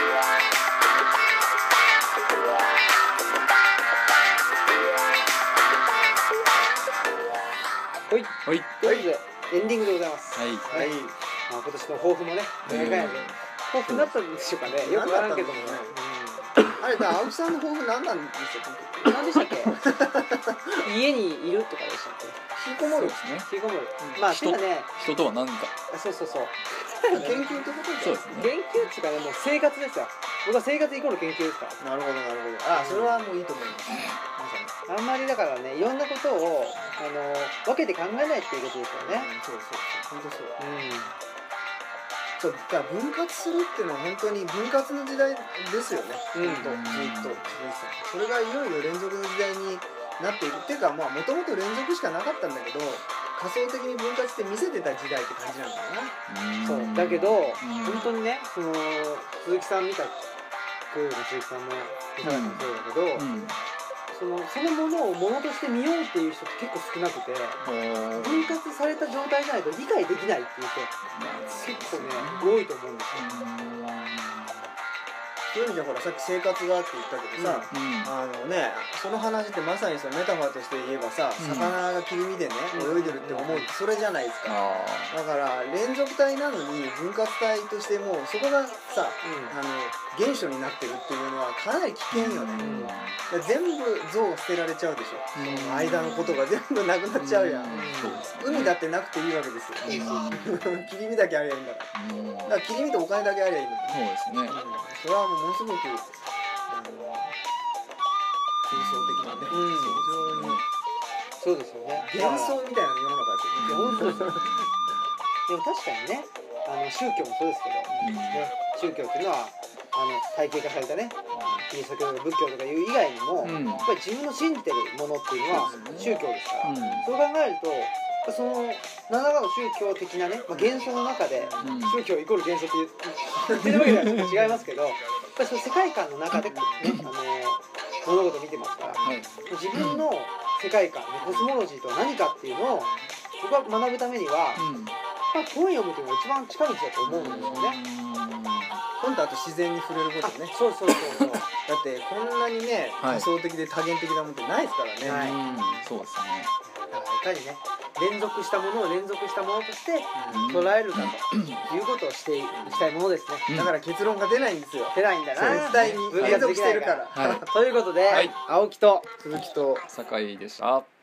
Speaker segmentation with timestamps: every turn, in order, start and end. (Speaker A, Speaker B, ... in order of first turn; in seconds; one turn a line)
Speaker A: 8.1-16.6
Speaker B: 8.4-8.8
Speaker B: 10.3-10.7
Speaker C: 10.7-11.1
Speaker B: 12.6-14.2
Speaker C: 14.7-16.0
Speaker B: 16.6-17.2
Speaker C: 16.7-20.9
Speaker A: 19.0-19.8
Speaker A: 20.8-24.9
Speaker C: 22.5-23.1
Speaker B: 22.8-23.5
Speaker C: 24.0-24.2
Speaker B: 24.2-25.7
Speaker A: 25.9-27.5
Speaker C: 27.1-28.4
Speaker B: 28.0-28.5
Speaker A: 28.3-31.8
Speaker C: 31.8-34.7
Speaker A: 32.7-33.2
Speaker A: 34.9-39.3
Speaker C: 39.0-40.7
Speaker A: 40.6-41.1
Speaker C: 42.4-56.2
Speaker A: 46.3-46.7
Speaker B: 46.5-47.5
Speaker B: 56.3-58.1
Speaker A: 56.6-60.2
Speaker A: 60.9-63.3
Speaker B: 62.2-63.6
Speaker A: 64.1-67.6
Speaker B: 67.6-68.5
Speaker A: 68.2-73.5
Speaker B: 71.1-74.7
Speaker C: 75.5-101.9
Speaker A: 77.3-77.7
Speaker B: 77.7-78.1
Speaker B: 81.4-81.8
Speaker A: 82.7-83.7
Speaker B: 84.4-85.2
Speaker A: 89.2-89.6
Speaker B: 92.1-93.3
Speaker A: 92.6-92.9
Speaker B: 95.3-96.5
Speaker B: 97.1-98.7
Speaker A: 97.7-98.3
Speaker B: 99.8-100.9
Speaker A: 99.9-100.4
Speaker B: 101.9-102.6
Speaker C: 102.5-107.4
Speaker B: 103.9-104.6
Speaker C: 108.6-110.6
Speaker B: 108.7-110.6
Speaker A: 109.5-110.0
Speaker A: 111.4-112.6
Speaker C: 112.0-114.7
Speaker B: 113.6-115.0
Speaker A: 113.7-114.5
Speaker A: 115.5-144.7
Speaker C: 117.9-118.2
Speaker B: 118.0-118.5
Speaker C: 123.4-123.8
Speaker B: 123.4-123.9
Speaker C: 125.5-126.2
Speaker B: 125.5-127.1
Speaker C: 126.7-127.1
Speaker C: 130.5-130.8
Speaker C: 131.3-131.9
Speaker B: 131.6-132.0
Speaker B: 133.5-134.5
Speaker C: 136.5-136.9
Speaker B: 136.8-137.1
Speaker C: 138.8-139.5
Speaker B: 139.0-140.0
Speaker C: 141.2-141.5
Speaker C: 142.7-143.1
Speaker B: 144.6-145.0
Speaker A: 145.3-147.8
Speaker C: 147.0-147.6
Speaker B: 147.1-148.8
Speaker C: 149.0-155.9
Speaker A: 150.2-151.5
Speaker B: 151.0-151.3
Speaker B: 153.0-153.3
Speaker A: 155.0-155.4
Speaker B: 155.0-156.5
Speaker A: 156.6-163.5
Speaker C: 160.1-160.5
Speaker B: 160.3-161.7
Speaker C: 162.5-162.9
Speaker B: 163.5-163.7
Speaker C: 163.5-167.5
Speaker A: 164.9-169.1
Speaker B: 165.4-166.4
Speaker B: 167.1-167.4
Speaker B: 168.1-168.3
Speaker C: 169.2-169.8
Speaker B: 169.9-170.9